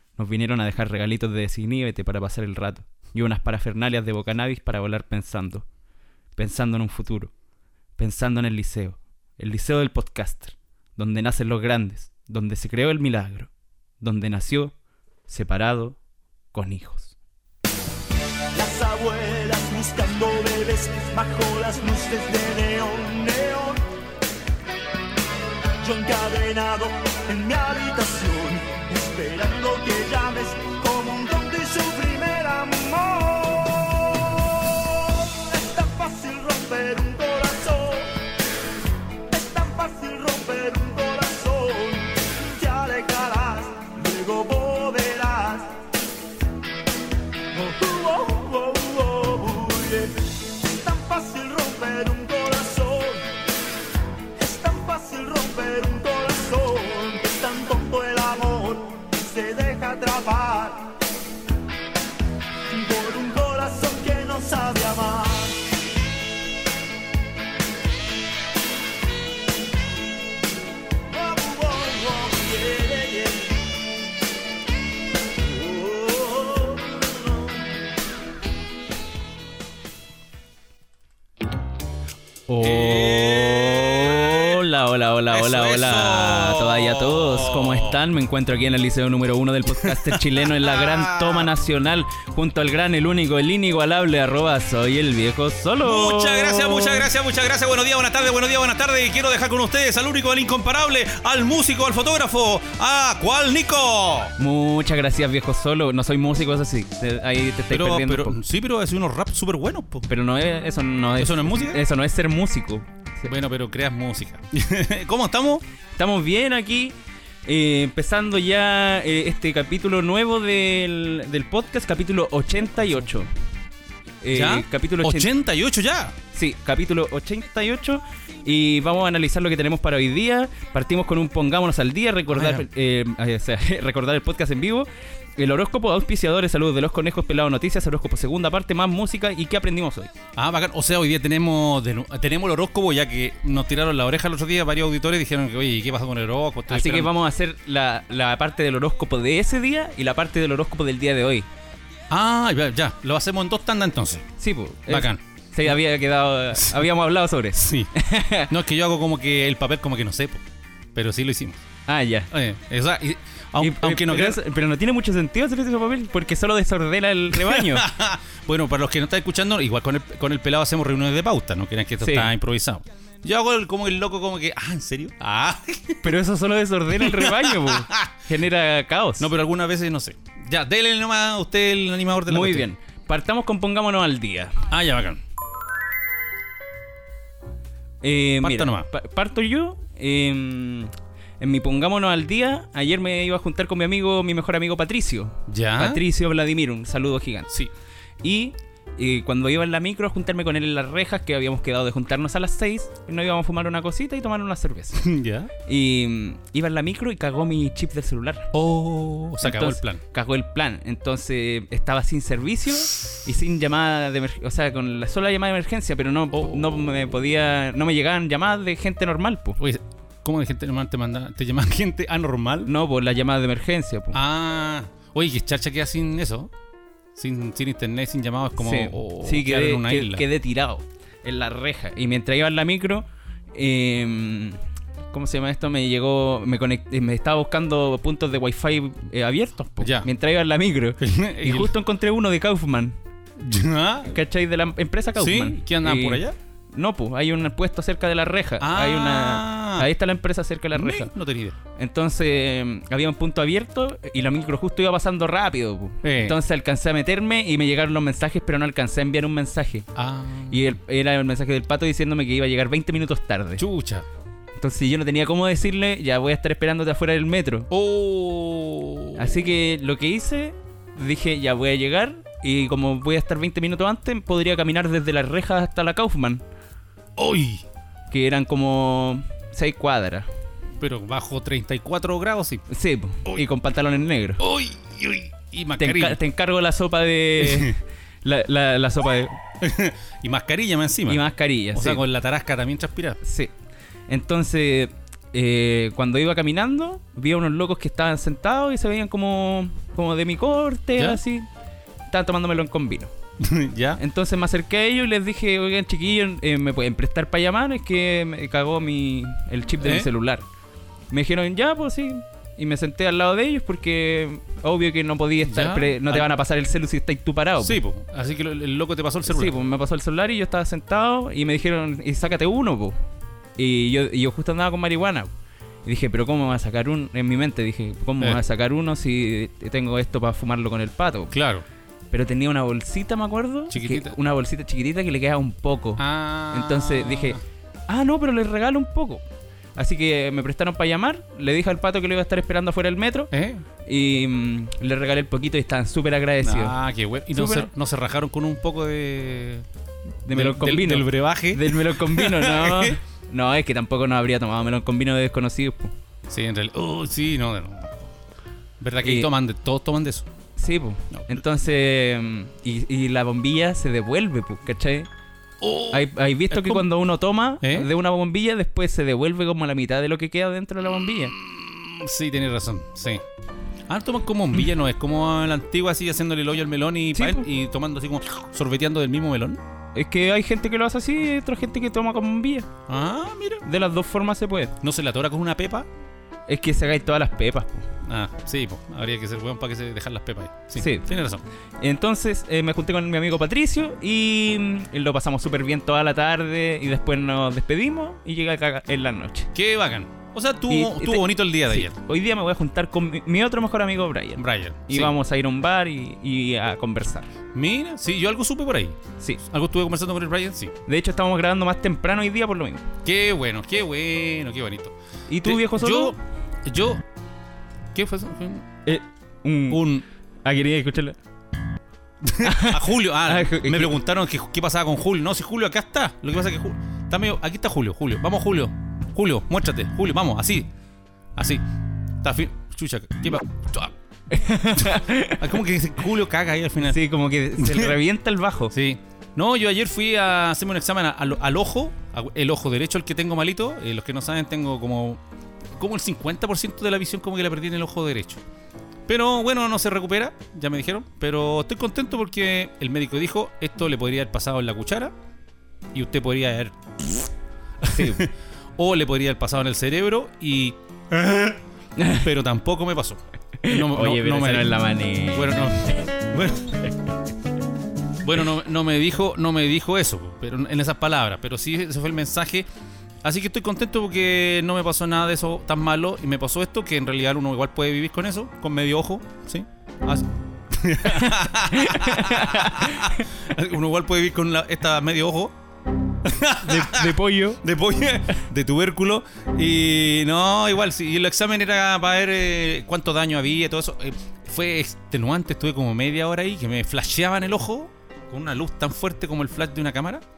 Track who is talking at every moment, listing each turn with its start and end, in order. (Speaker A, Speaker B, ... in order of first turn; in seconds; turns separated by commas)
Speaker A: 0.2-5.7, Speaker A: 6.4-7.3, Speaker A: 8.0-13.5, Speaker A: 14.0-14.7, Speaker A: 15.3-16.0, Speaker A: 16.5-17.1, Speaker B: 18.5-23.8, Speaker B: 25.8-38.1, Speaker B: 39.3-45.7, Speaker B: 47.5-53.2, Speaker B: 54.4-61.0, Speaker B: 62.7-65.7, Speaker B: 71.1-73.9, Speaker B: 75.4-77.4, Speaker A: 82.5-97.1, Speaker C: 82.6-84.6, Speaker C: 85.3-88.0, Speaker C: 89.8-91.5, Speaker C: 95.8-104.3, Speaker A: 104.4-108.4, Speaker C: 107.7-110.1, Speaker A: 110.1-113.3, Speaker C: 111.2-111.8, Speaker C: 113.3-115.6, Speaker A: 116.0-117.0, Speaker A: 117.5-123.3, Speaker A: 124.2-125.3, Speaker C: 124.3-126.2, Speaker A: 126.3-140.1, Speaker C: 132.3-132.7, Speaker C: 140.4-147.1, Speaker A: 146.7-151.5, Speaker C: 152.1-154.3, Speaker A: 154.4-158.5, Speaker C: 154.9-155.7, Speaker C: 156.5-156.9, Speaker C: 157.6-157.9, Speaker C: 158.5-161.6, Speaker A: 161.9-162.3, Speaker C: 162.3-164.4, Speaker A: 163.6-167.9, Speaker C: 167.3-176.1, Speaker A: 172.0-172.3, Speaker A: 176.0-179.3, Speaker C: 176.9-178.1, Speaker C: 179.2-182.7, Speaker A: 182.3-184.6, Speaker C: 184.7-185.2, Speaker A: 188.0-197.5, Speaker C: 188.4-188.9, Speaker C: 195.5-196.0, Speaker A: 198.2-205.1, Speaker C: 205.0-205.5, Speaker A: 205.7-208.5, Speaker C: 208.5-210.0, Speaker A: 209.4-219.6, Speaker C: 216.3-216.9, Speaker C: 219.6-222.7, Speaker A: 222.7-224.2, Speaker C: 224.1-226.5, Speaker C: 227.2-230.2, Speaker A: 228.6-234.6, Speaker A: 235.1-243.0, Speaker C: 239.8-240.1, Speaker C: 241.0-241.7, Speaker C: 243.4-244.2, Speaker A: 244.1-246.2, Speaker C: 245.2-246.4, Speaker A: 246.7-251.1, Speaker C: 248.6-249.9, Speaker C: 250.7-251.6, Speaker A: 251.8-259.9, Speaker C: 256.0-256.4, Speaker C: 260.0-260.6, Speaker A: 260.5-263.6, Speaker C: 263.6-264.1, Speaker A: 264.6-267.7, Speaker C: 267.7-269.5, Speaker A: 269.2-276.4, Speaker C: 277.2-277.6, Speaker A: 278.1-280.3, Speaker C: 280.8-282.6, Speaker A: 282.7-284.4, Speaker C: 284.4-286.2, Speaker A: 285.8-289.4, Speaker C: 287.4-287.7, Speaker C: 289.6-291.2, Speaker A: 291.1-292.0, Speaker C: 291.8-293.2, Speaker A: 293.2-293.5, Speaker A: 294.1-301.5, Speaker A: 302.1-303.1, Speaker C: 303.4-304.0, Speaker A: 304.0-310.4, Speaker C: 309.8-310.1, Speaker A: 311.1-317.8, Speaker C: 315.4-316.3, Speaker C: 317.6-319.6, Speaker A: 319.3-322.9, Speaker A: 323.6-325.3, Speaker A: 325.9-331.3, Speaker C: 331.3-331.6, Speaker A: 332.1-339.2, Speaker C: 333.7-334.1, Speaker C: 336.0-337.4, Speaker A: 339.8-343.3, Speaker C: 343.3-343.6, Speaker A: 343.9-346.8, Speaker C: 346.4-349.7, Speaker A: 347.3-347.7, Speaker A: 350.2-355.9, Speaker C: 350.3-353.0, Speaker C: 356.3-358.1, Speaker C: 358.8-360.3, Speaker A: 359.0-359.3, Speaker A: 360.6-365.1, Speaker C: 361.1-361.4, Speaker C: 365.6-366.9, Speaker A: 365.9-371.4, Speaker C: 367.6-367.9, Speaker C: 371.4-373.2, Speaker C: 373.9-379.6, Speaker A: 377.1-377.5, Speaker A: 379.9-382.7, Speaker C: 382.9-383.6, Speaker A: 383.6-384.8, Speaker C: 384.8-385.9, Speaker A: 386.5-387.9, Speaker C: 388.0-391.4, Speaker A: 390.8-391.1, Speaker A: 391.8-399.5, Speaker C: 399.5-402.0, Speaker A: 400.7-407.3, Speaker C: 404.4-405.1, Speaker C: 407.5-410.7, Speaker A: 410.9-412.9, Speaker C: 413.1-417.0, Speaker A: 415.3-416.1, Speaker C: 417.9-418.7, Speaker A: 418.9-419.8, Speaker C: 419.7-420.1, Speaker A: 420.4-421.2, Speaker C: 422.2-430.7, Speaker A: 422.4-423.9, Speaker C: 431.4-431.6, Speaker C: 432.2-433.9, Speaker A: 434.3-435.5, Speaker C: 434.8-437.0, Speaker A: 436.8-438.7, Speaker C: 437.6-438.0, Speaker C: 438.7-445.2, Speaker C: 445.8-448.4, Speaker C: 449.1-455.1, Speaker C: 455.9-457.2, Speaker C: 457.8-461.6, Speaker A: 457.8-458.2, Speaker A: 462.0-462.3, Speaker C: 462.1-466.9, Speaker A: 463.6-465.7, Speaker C: 468.2-472.7, Speaker C: 473.2-485.6, Speaker A: 481.1-483.3, Speaker C: 486.2-500.2, Speaker A: 486.6-487.6